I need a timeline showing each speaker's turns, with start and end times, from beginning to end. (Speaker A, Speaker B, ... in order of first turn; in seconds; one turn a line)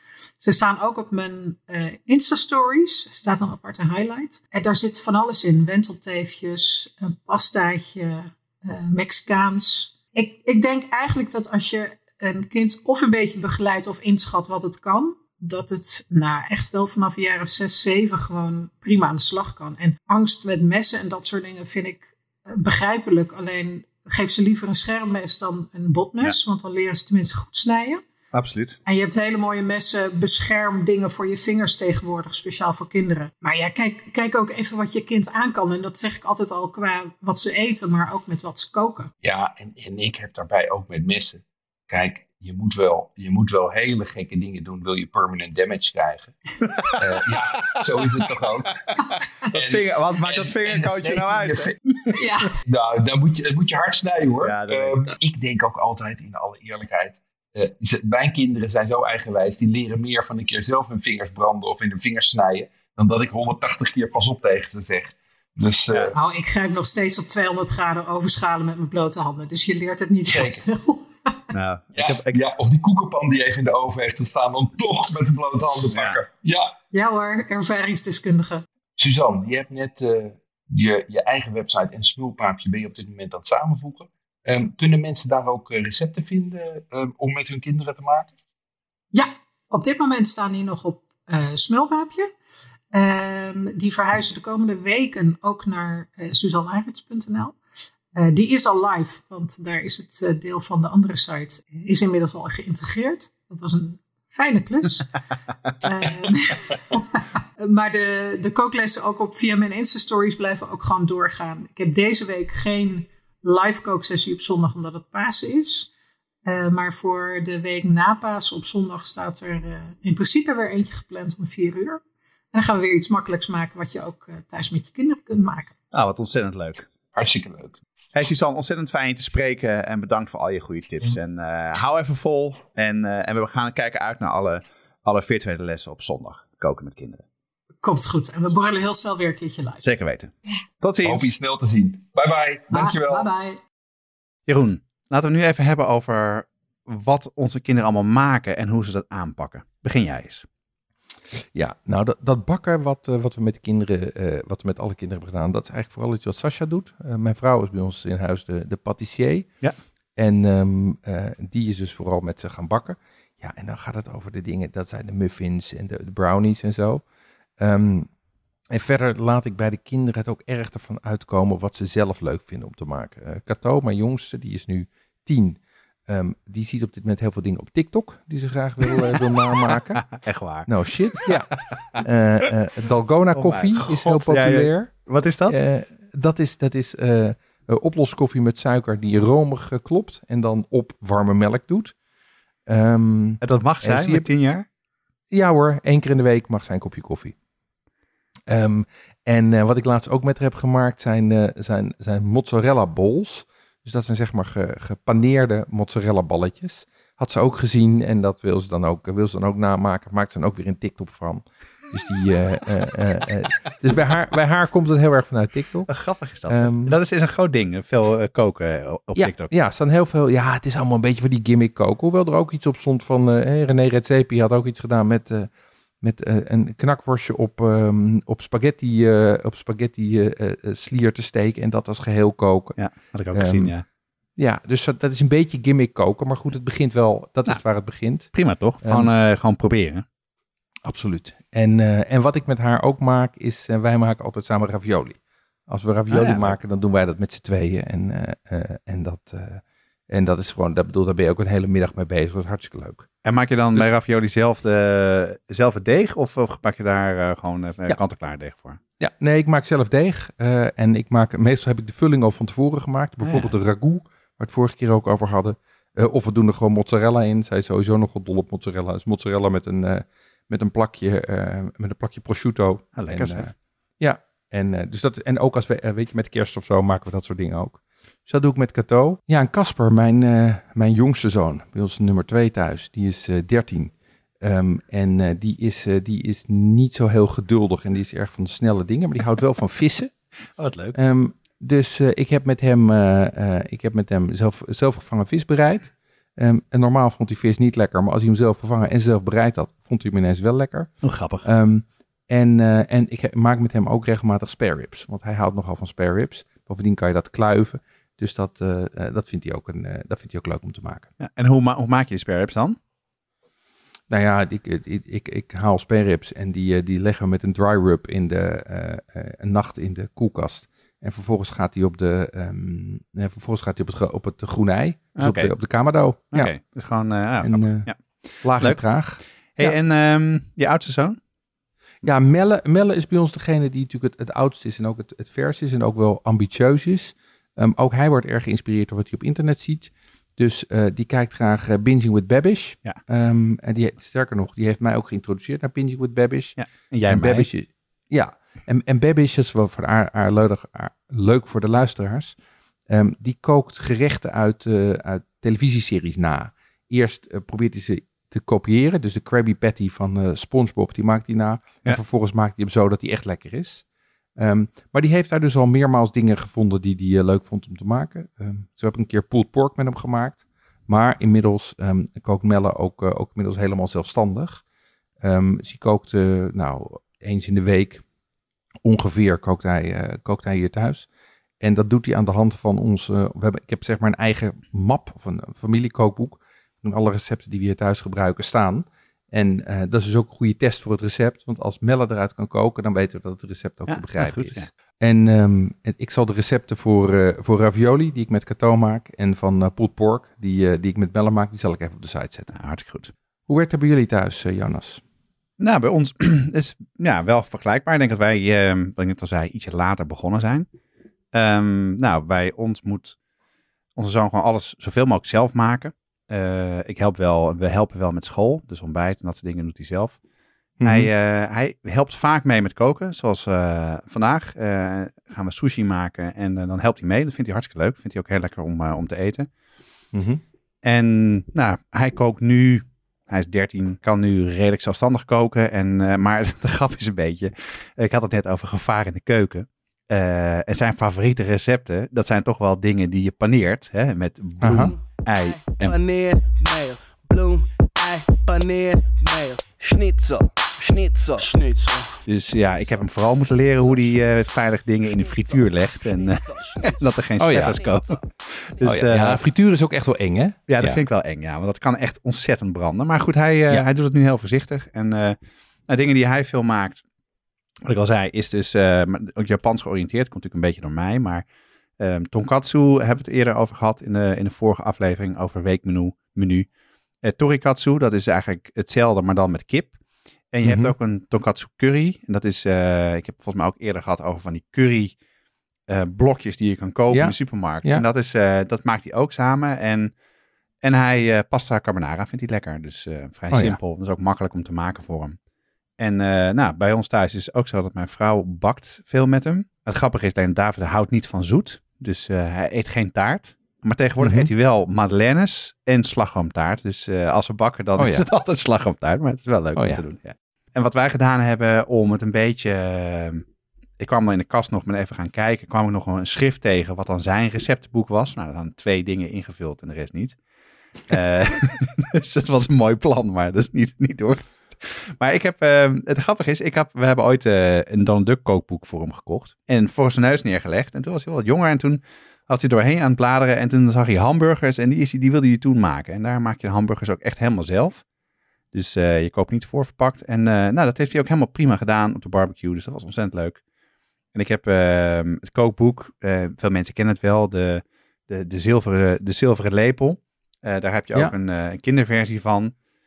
Speaker A: 0.4-28.0
Speaker B: 28.3-28.8
Speaker A: 28.9-39.1
Speaker C: 39.2-51.8
Speaker B: 46.7-47.0
Speaker B: 48.0-48.3
Speaker B: 49.5-52.2
Speaker A: 52.1-52.5
Speaker C: 52.6-66.1
Speaker B: 54.4-55.0
Speaker A: 66.1-71.4
Speaker C: 70.3-70.6
Speaker B: 71.5-72.4
Speaker C: 72.0-76.7
Speaker B: 75.9-76.2
Speaker A: 76.9-78.6
Speaker C: 79.0-88.3
Speaker A: 89.1-92.3
Speaker A: 92.9-97.6
Speaker A: 98.1-105.1
Speaker A: 105.8-115.9
Speaker A: 116.5-122.0
Speaker A: 122.5-125.7
Speaker B: 125.9-126.8
Speaker C: 127.1-127.8
Speaker B: 128.1-137.2
Speaker A: 137.8-139.8
Speaker B: 139.8-141.3
Speaker C: 141.0-143.3
Speaker A: 142.7-143.6
Speaker B: 144.5-150.4
Speaker D: 151.5-159.5
Speaker D: 160.2-167.0
Speaker D: 167.6-168.1
Speaker D: 168.7-180.1
Speaker B: 180.0-182.0
Speaker D: 180.6-184.9
Speaker B: 183.3-185.6
Speaker D: 185.5-191.9
Speaker D: 192.7-194.3
Speaker B: 193.4-194.7
Speaker D: 195.3-197.3
Speaker D: 198.5-215.9
Speaker B: 215.9-219.5
Speaker D: 216.4-216.9
Speaker D: 219.2-225.5
Speaker D: 226.0-232.8
Speaker B: 232.8-233.8
Speaker D: 233.3-233.7
Speaker D: 234.3-239.1
Speaker B: 238.3-240.0
Speaker D: 240.8-253.1
Speaker B: 246.1-246.6
Speaker B: 253.2-258.8
Speaker D: 259.0-290.2
Speaker B: 263.2-263.5
Speaker B: 272.9-273.5
Speaker B: 290.6-290.9
Speaker D: 290.9-311.1
Speaker B: 301.0-301.4
Speaker B: 311.2-312.8
Speaker D: 314.1-326.6
Speaker B: 325.1-325.5
Speaker B: 326.3-328.9
Speaker D: 327.4-329.8
Speaker B: 329.5-331.2
Speaker D: 332.0-352.4
Speaker B: 346.6-347.5
Speaker D: 352.9-363.8
Speaker D: 364.4-374.6
Speaker D: 375.2-378.0
Speaker D: 378.8-381.1
Speaker D: 381.6-402.5
Speaker B: 393.9-394.7
Speaker B: 402.5-403.1
Speaker D: 403.5-405.0
Speaker B: 405.6-410.7
Speaker B: 411.3-413.2
Speaker B: 413.9-420.2
Speaker D: 420.8-421.1
Speaker B: 420.8-429.5
Speaker D: 430.1-430.4
Speaker B: 430.8-446.0
Speaker D: 444.6-444.9
Speaker E: 445.7-452.2
Speaker B: 452.2-459.4
Speaker E: 456.4-457.0
Speaker D: 457.4-457.8
Speaker D: 458.8-461.0
Speaker B: 460.7-465.4
Speaker B: 465.9-467.0
Speaker B: 467.8-471.4
Speaker B: 472.0-476.7
Speaker B: 477.2-479.9
Speaker B: 480.5-485.2
Speaker D: 480.6-480.9
Speaker B: 485.9-490.1
Speaker D: 487.1-488.0
Speaker B: 490.8-495.4
Speaker D: 493.5-493.8
Speaker B: 496.0-513.4
Speaker D: 504.2-504.5
Speaker D: 508.0-508.2
Speaker D: 509.7-510.0
Speaker B: 514.0-520.4
Speaker B: 521.1-538.0
Speaker B: 538.7-543.6
Speaker B: 544.3-552.7